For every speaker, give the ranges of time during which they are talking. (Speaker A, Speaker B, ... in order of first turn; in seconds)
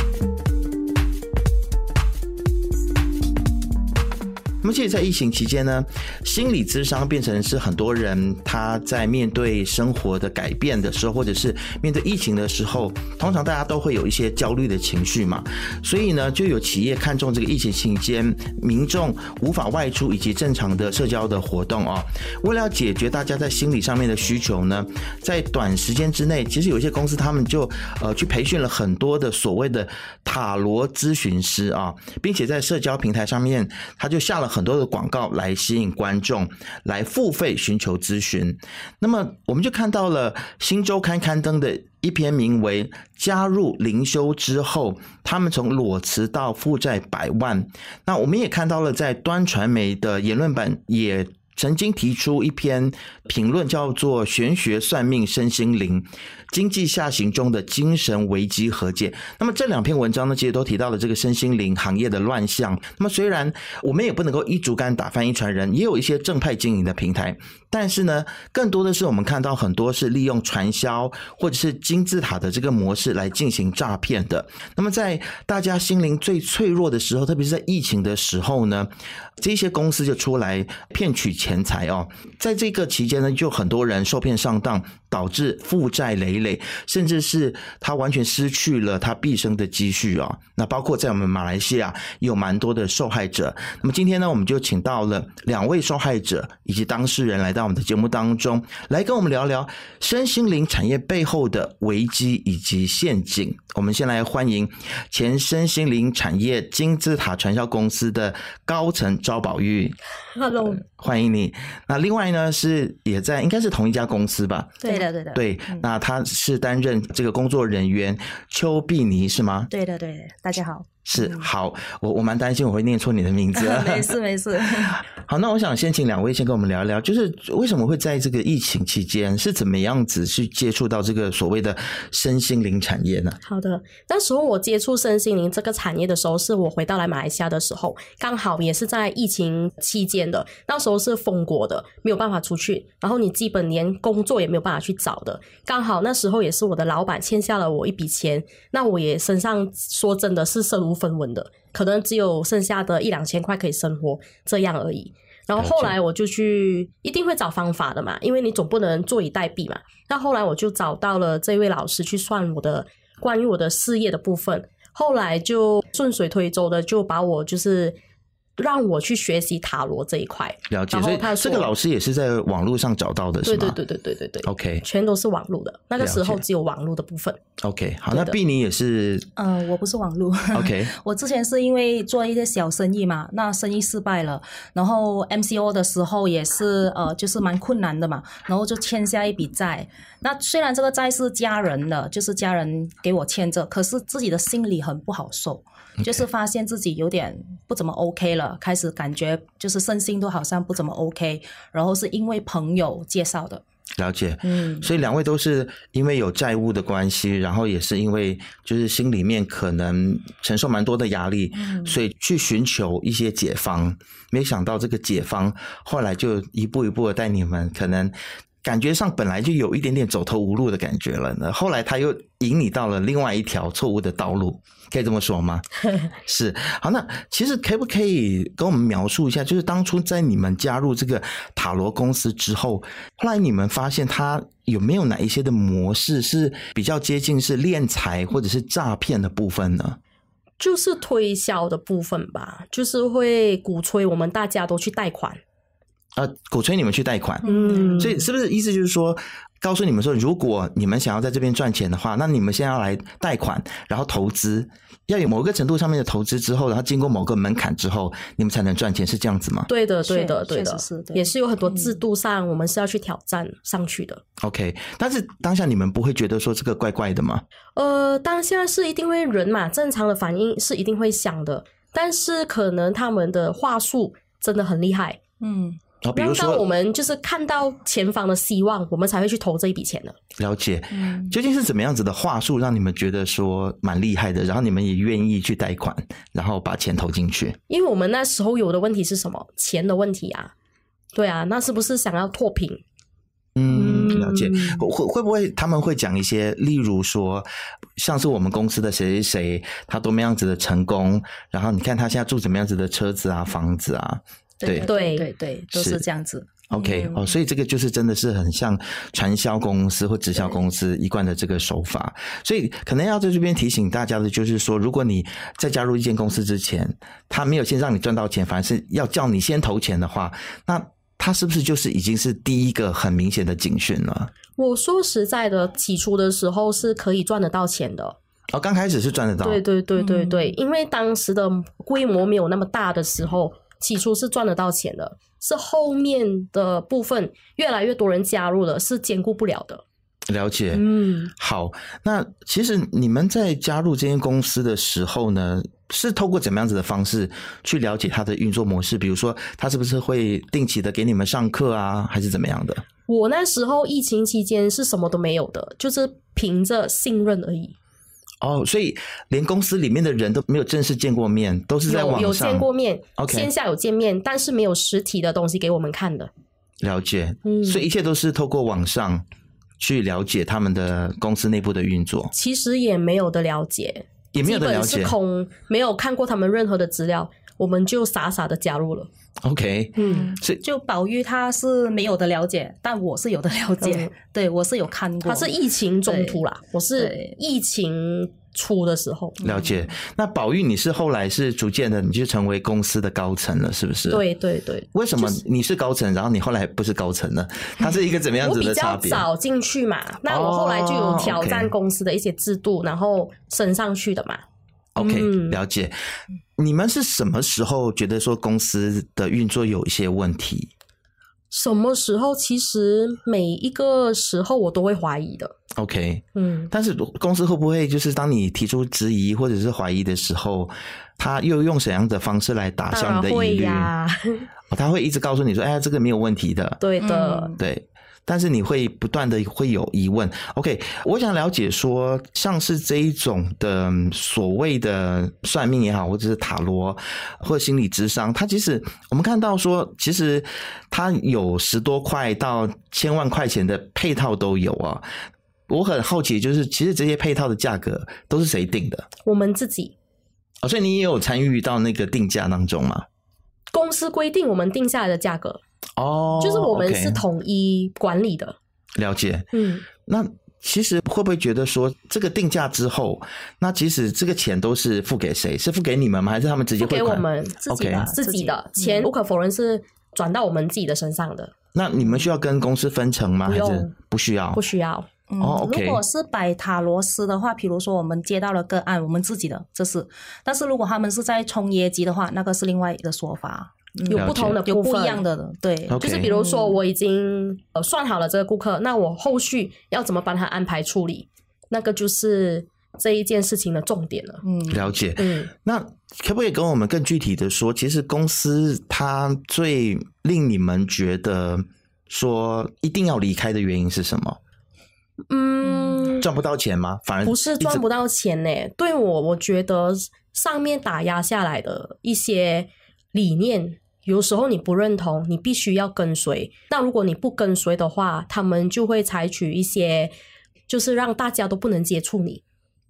Speaker A: 4.6-110.0, 110.6-114.8, 115.3-119.7, 121.0-124.1, 124.9-133.4, 155.6-156.0, 170.7-173.8, 174.4-174.8, 176.0-176.4, 177.6-179.3, 180.5-180.9, 204.0-225.7, 226.2-240.0, 246.2-259.7, 264.4-267.4, 276.0-276.6, 280.4-287.6, 293.6-304.9, 305.7-306.0, 306.7-324.3, 328.5-329.6, 340.3-340.9, 341.4-352.8, 358.4-363.5, 366.8-369.2, 369.8-372.3, 374.3-375.1, 379.4-380.6, 389.4-394.2, 394.9-399.3, 400.3-401.7, 405.0-405.9, 406.6-410.7, 415.8-423.9, 424.7-426.8, 427.6-445.1, 445.7-449.1, 450.6-453.1, 456.0-457.2, 459.0-459.5, 460.1-468.1, 471.7-474.6, 475.4-476.0, 484.1-484.6, 485.9-486.3, 494.7-504.4, 506.2-507.8
Speaker B: 110.4-110.8, 133.4-168.0, 168.6-171.7, 173.4-177.4, 240.6-245.4, 247.4-248.2, 259.7-264.2, 267.8-275.2, 276.1-280.2, 287.7-290.5, 291.1-292.8, 293.7-294.9, 304.8-305.2, 324.6-328.2, 329.4-339.8, 340.7-341.3, 353.1-357.8, 361.9-366.3, 367.4-367.9, 372.3-379.1, 380.0-380.3, 383.8-384.1, 385.2-389.4, 394.1-395.4, 397.8-404.4, 405.0-405.6, 411.5-415.6, 416.4-416.7, 422.9-424.4, 426.8-427.6, 449.2-449.9, 453.7-455.6, 456.4-458.6, 459.5-459.9, 466.8-471.5, 473.5-473.9, 474.6-475.1, 484.1-485.2, 486.0-494.4, 495.2-495.5, 505.3-506.3, 507.2-520.1, 520.7-522.4
Speaker C: 114.8-115.9, 119.7-121.5, 123.5-125.0, 179.4-203.6, 204.4-204.9, 211.5-211.9, 247.4-248.2, 260.1-262.0, 275.4-275.8, 280.9-281.3, 304.6-307.3, 330.0-330.6, 380.0-385.5, 386.1-386.4, 386.9-387.4, 389.4-389.9, 427.0-427.6, 467.6-469.1, 475.3-486.8, 494.4-494.9, 505.6-506.1